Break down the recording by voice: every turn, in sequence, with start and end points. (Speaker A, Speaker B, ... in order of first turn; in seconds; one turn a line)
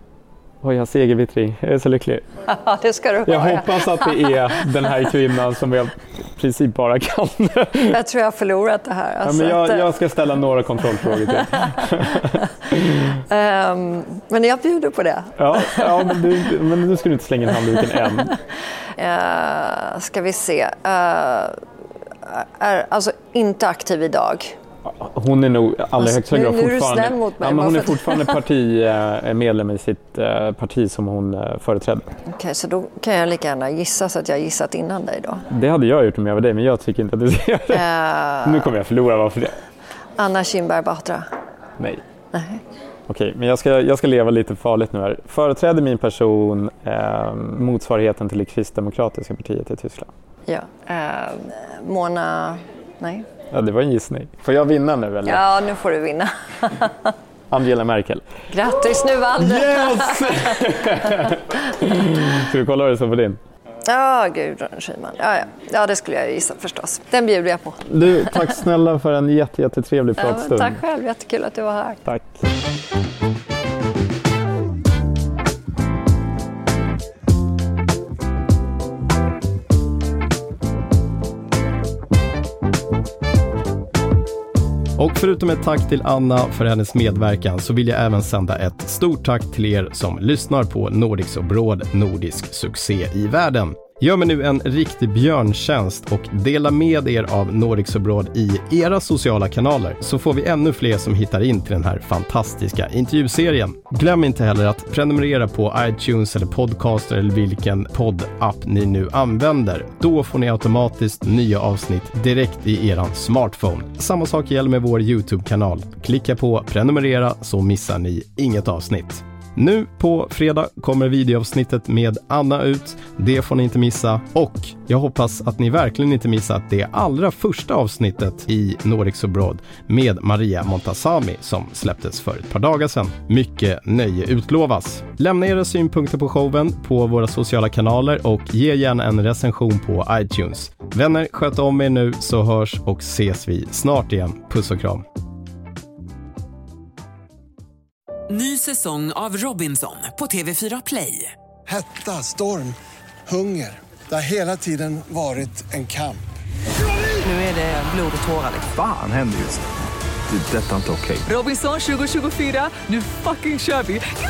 Speaker A: 0.6-2.3
Speaker B: 2.5-4.3
Speaker A: 3.2-8.0
Speaker B: 7.9-9.9
Speaker A: 9.2-12.4
Speaker B: 11.1-16.5
Speaker A: 15.4-18.3
Speaker B: 17.7-18.4
Speaker B: 18.9-21.6
Speaker B: 22.2-24.6
Speaker A: 24.8-32.1
Speaker B: 26.0-28.4
Speaker B: 32.2-35.5
Speaker A: 35.5-37.9
Speaker B: 37.7-38.7
Speaker A: 38.4-39.5
Speaker B: 40.2-41.3
Speaker B: 42.3-42.6
Speaker A: 43.1-50.1
Speaker B: 50.5-53.3
Speaker A: 53.5-55.5
Speaker B: 55.2-57.1
Speaker A: 57.5-58.3
Speaker B: 58.5-61.3
Speaker A: 59.4-63.4
Speaker B: 63.9-68.5
Speaker A: 67.8-70.8
Speaker B: 70.2-72.0
Speaker A: 72.0-72.4
Speaker C: 85.0-145.0
Speaker D: 148.3-151.3
Speaker E: 151.7-152.8
Speaker E: 153.3-156.2
Speaker D: 157.2-158.7
Speaker F: 158.7-159.7
Speaker F: 160.3-161.3
Speaker D: 161.3-164.0